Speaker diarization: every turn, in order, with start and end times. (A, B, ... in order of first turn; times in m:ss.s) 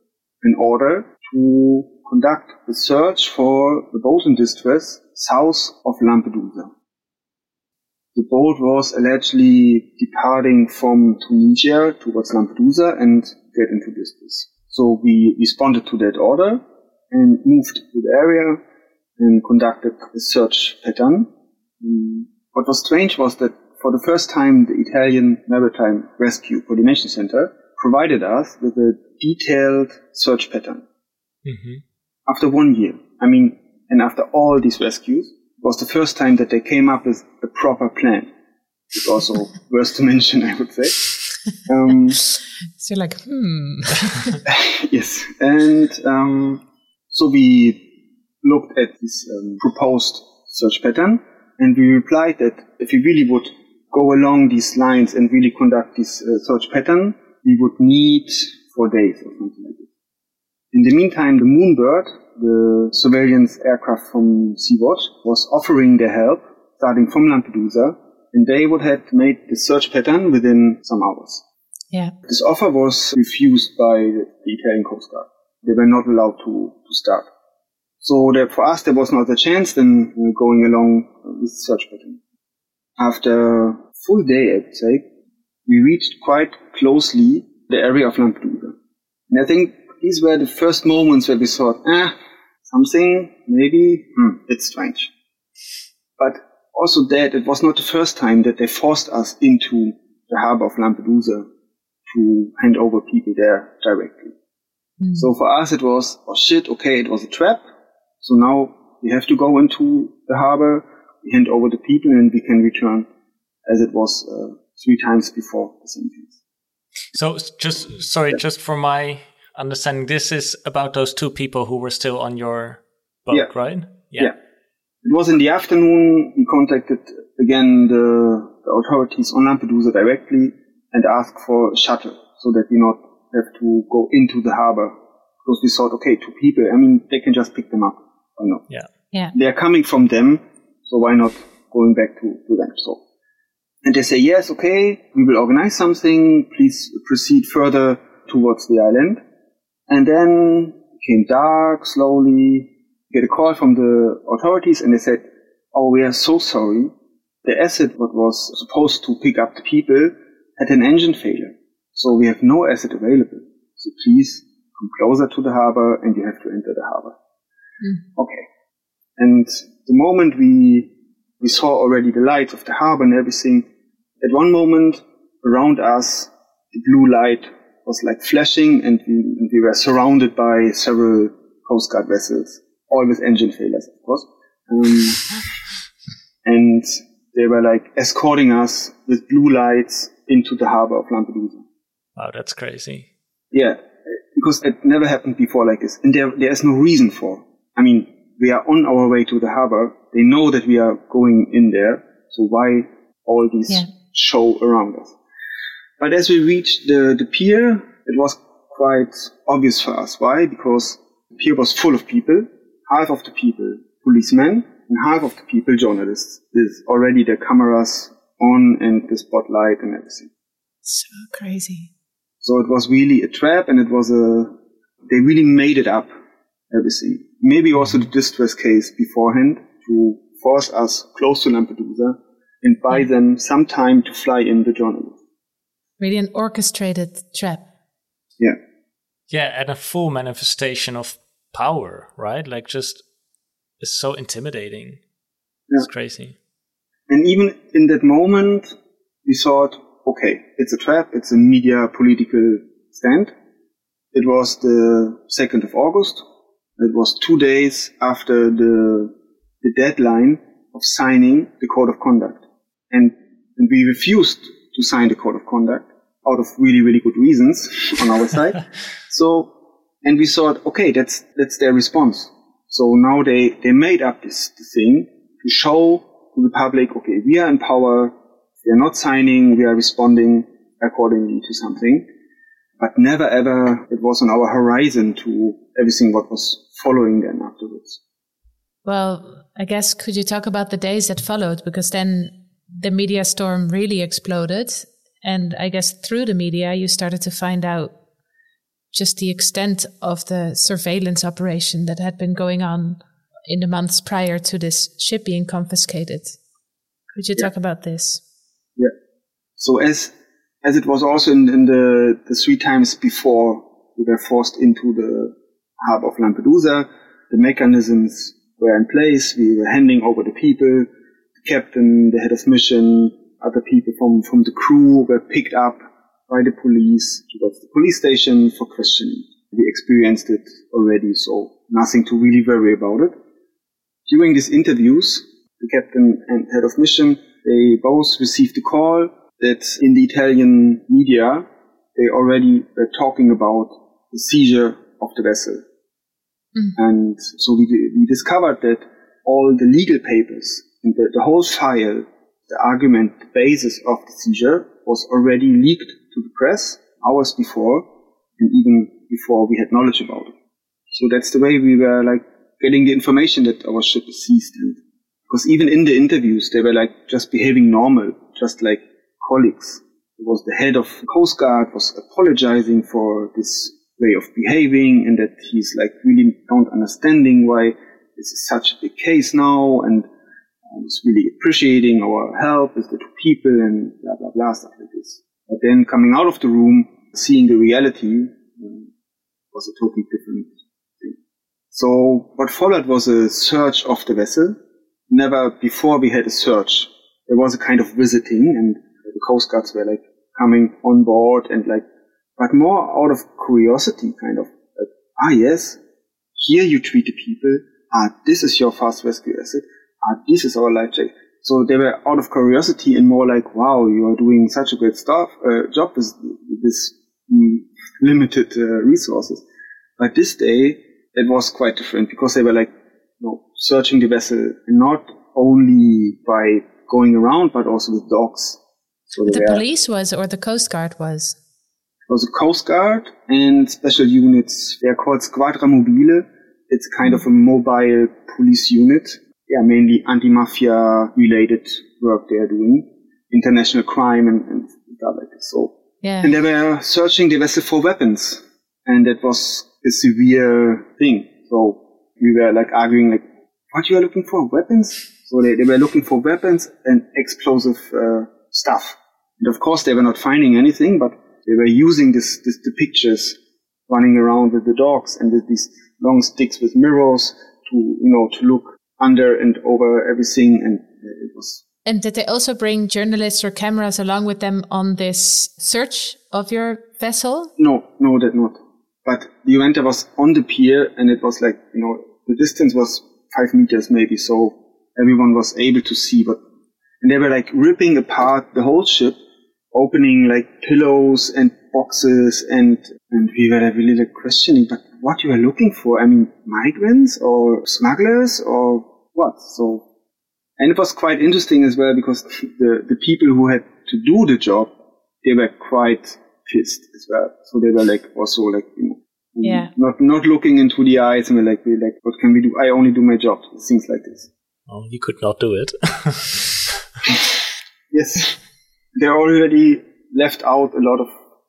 0:00.4-0:06.7 A
0:08.2-0:18.6 A
0:19.2-0:30.8 A
0:31.4-0:31.8 B
0:32.3-0:38.3 A
0:38.9-0:42.2 A
0:42.8-0:44.4 C
0:44.4-0:47.9 A
0:48.4-0:59.9 A
1:00.7-1:11.4 A
1:12.3-1:17.3 A
1:18.0-1:22.2 A
1:23.0-1:25.1 A
1:25.7-1:28.8 A
1:29.3-1:32.2 A
1:32.7-1:35.1 A
1:36.2-1:41.5 A
1:42.1-1:44.3 A
1:45.0-1:45.3 C
1:45.2-1:47.6 A
1:48.2-1:53.1 A
1:53.7-1:56.4 A
1:57.1-2:04.3 B
2:05.0-2:18.7 A
2:19.3-2:23.0 A
2:23.8-2:29.2 A
2:29.9-2:36.9 A
2:37.4-2:47.2 A
2:48.2-2:48.4 A
2:49.2-2:53.7 A
2:54.2-3:05.4 A
3:06.4-3:11.6 A
3:12.2-3:13.1 B
3:13.5-3:13.8 A
3:14.3-3:25.2 A
3:26.0-3:40.3 A
3:40.9-3:41.9 C
3:42.4-3:44.5 A
3:45.1-3:46.1 A
3:46.7-3:55.2 A
3:56.0-3:57.7 C
3:59.3-4:03.0 B
4:03.8-4:05.0 B
4:05.8-4:06.4 B
4:07.1-4:08.7 A
4:09.2-4:13.3 A
4:14.1-4:16.2 A
4:16.8-4:29.5 A
4:30.0-4:42.1 A
4:42.8-4:48.0 A
4:48.8-4:58.0 C
4:58.9-5:06.4 C
5:07.1-5:08.2 C
5:09.6-5:20.9 A
5:21.4-5:33.2 A
5:34.1-5:45.6 A
5:46.8-5:57.9 A
5:58.4-6:00.3 A
6:00.9-6:04.8 A
6:05.3-6:20.1 A
6:20.7-6:28.9 A
6:29.5-6:31.2 A
6:31.7-6:41.9 A
6:42.4-6:45.8 A
6:46.4-6:59.4 A
7:00.0-7:08.6 A
7:09.1-7:09.6 A
7:09.3-7:11.4 C
7:12.1-7:51.6 A
7:26.0-7:26.3 C
7:51.9-7:57.5 C
7:57.6-8:06.4 A
8:07.0-8:09.2 A
8:09.7-8:19.9 A
8:20.6-8:24.7 A
8:25.2-8:34.3 A
8:29.4-8:29.7 C
8:34.7-8:36.7 B
8:37.9-8:38.4 A
8:39.0-8:41.1 A